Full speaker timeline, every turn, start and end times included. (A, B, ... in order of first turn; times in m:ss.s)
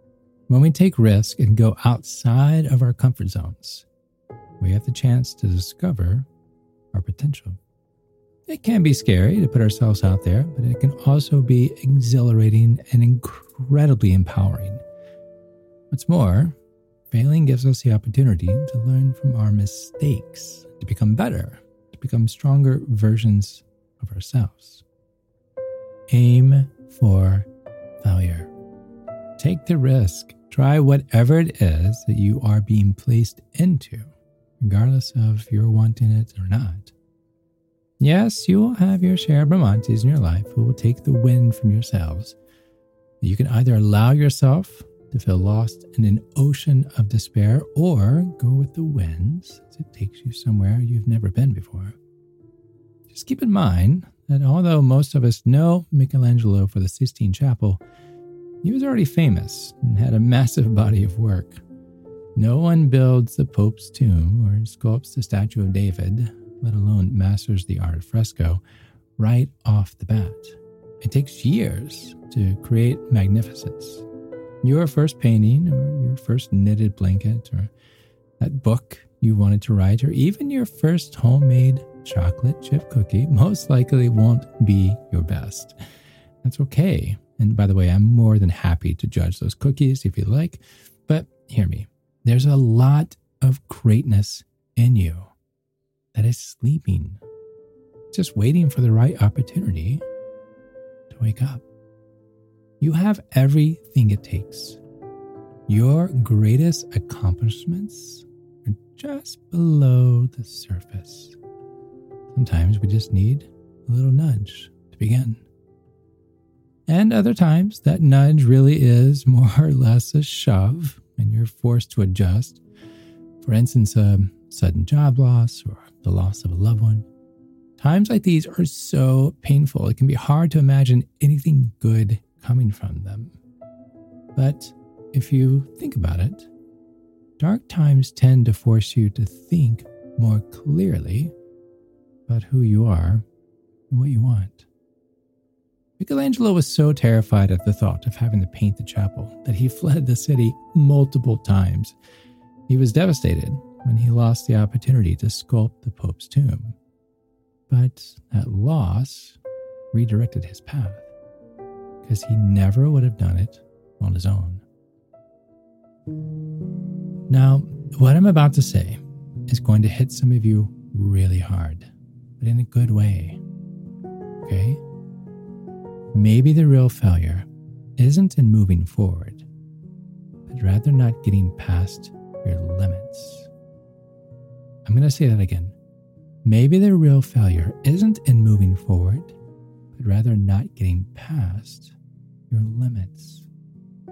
0:00.5-0:03.9 A
0:04.6-0:06.3 A
0:06.9-0:07.6 A
0:08.5-0:14.8 A
0:15.9-0:16.6 A
0:17.1-0:24.8 A
0:26.1-0:27.5 A
0:28.0-0:28.5 A
0:29.4-0:36.9 A
0:38.0-0:42.4 A
0:43.2-0:52.0 A
0:53.1-0:57.8 A
0:58.6-1:01.6 A
1:02.3-1:08.6 A
1:09.2-1:14.0 A
1:14.6-1:17.7 A
1:18.4-1:25.8 A
1:26.4-1:35.3 A
1:36.1-1:37.2 A
1:38.1-1:40.0 A
1:41.1-1:41.6 A
1:42.8-1:44.8 A
1:45.7-1:51.4 A
1:52.3-1:55.4 A
1:56.9-2:02.6 A
2:03.4-2:07.1 A
2:07.8-2:13.4 A
2:14.3-2:16.5 A
2:17.4-2:21.3 A
2:22.3-2:23.2 A
2:23.9-2:24.7 A
2:26.0-2:32.0 A
2:32.7-2:36.8 A
2:37.7-2:39.4 A
2:39.9-2:41.1 A
2:42.0-2:44.6 A
2:47.3-2:53.4 A
2:54.4-2:54.8 A
2:56.1-2:59.5 A
3:00.5-3:03.5 A
3:04.8-3:05.8 A
3:06.4-3:09.4 A
3:09.9-3:12.0 A
3:12.5-3:13.5 A